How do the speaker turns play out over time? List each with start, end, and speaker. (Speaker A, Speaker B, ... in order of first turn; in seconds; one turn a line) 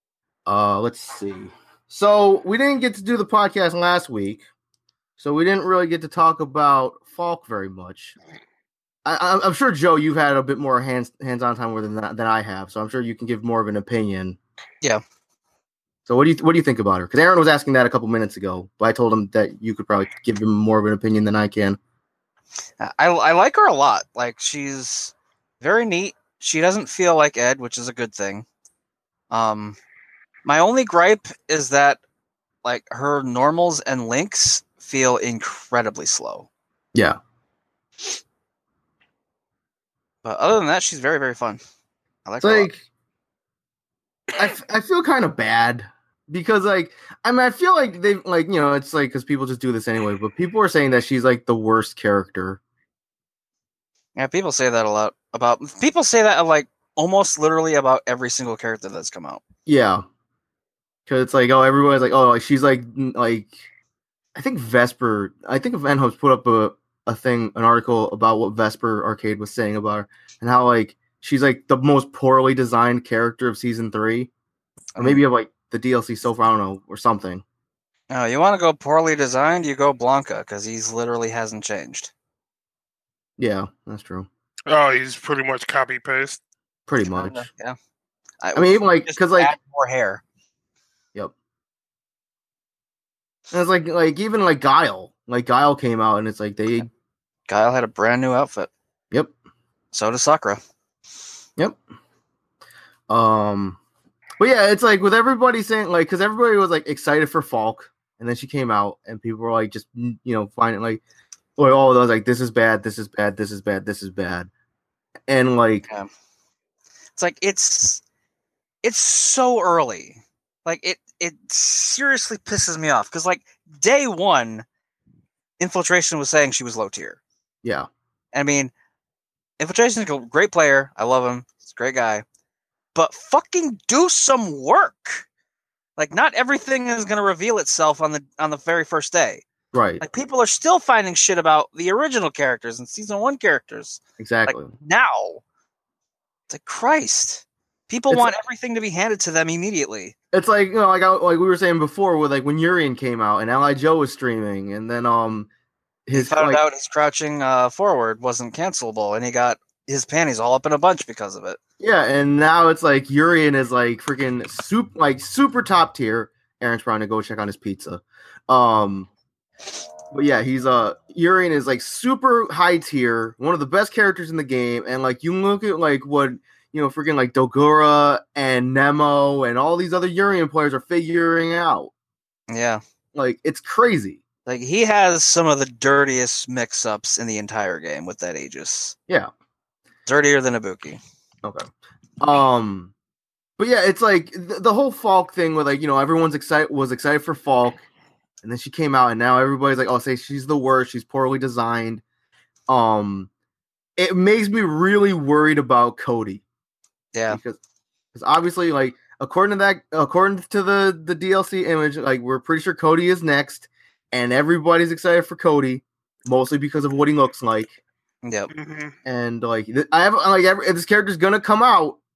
Speaker A: 0.5-4.4
Speaker A: 5.2-8.2
Speaker A: 9.0-14.4
Speaker A: 16.1-21.8
Speaker B: 22.8-28.4
Speaker B: 29.3-29.8
Speaker B: 30.4-32.0
Speaker B: 32.6-36.5
Speaker B: 40.2-41.6
Speaker B: 42.2-42.7
Speaker A: 42.4-42.8
Speaker A: 44.4-52.6
Speaker B: 54.1-59.4
Speaker A: 59.6-60.0
Speaker A: 61.1-63.5
Speaker A: 64.3-74.3
Speaker B: 75.0-75.2
Speaker A: 75.0-77.4
Speaker B: 78.1-82.1
Speaker A: 83.4-84.3
Speaker C: 84.7-86.4
Speaker A: 86.9-87.5
Speaker B: 87.1-87.8
Speaker B: 88.4-90.2
Speaker A: 88.5-89.5
Speaker A: 93.5-96.9
Speaker B: 97.5-98.7
Speaker B: 99.9-100.6
Speaker A: 103.1-103.8
Speaker A: 104.4-111.0
Speaker A: 111.6-114.5
Speaker A: 115.3-115.9
Speaker B: 117.2-118.0
Speaker B: 118.8-124.7
Speaker B: 125.6-127.2
Speaker B: 128.3-128.7
Speaker B: 129.6-132.2
Speaker B: 132.9-135.2
Speaker B: 136.0-139.4
Speaker A: 139.7-140.0
Speaker B: 140.0-145.4
Speaker A: 144.2-144.7
Speaker B: 146.5-150.1
Speaker A: 150.3-155.5
Speaker A: 156.1-156.6
Speaker B: 156.1-161.6
Speaker A: 161.8-169.1
Speaker A: 170.1-181.9
Speaker B: 182.5-182.8
Speaker A: 183.1-184.2
Speaker B: 184.4-188.9
Speaker B: 190.1-191.0
Speaker A: 192.2-192.9
Speaker A: 193.6-197.8
Speaker A: 198.4-202.0
Speaker A: 202.7-203.3
Speaker A: 204.0-206.4
Speaker B: 207.1-207.4
Speaker A: 207.3-207.6
Speaker A: 208.1-217.8
Speaker B: 218.2-218.5
Speaker C: 218.5-218.9
Speaker A: 219.0-222.0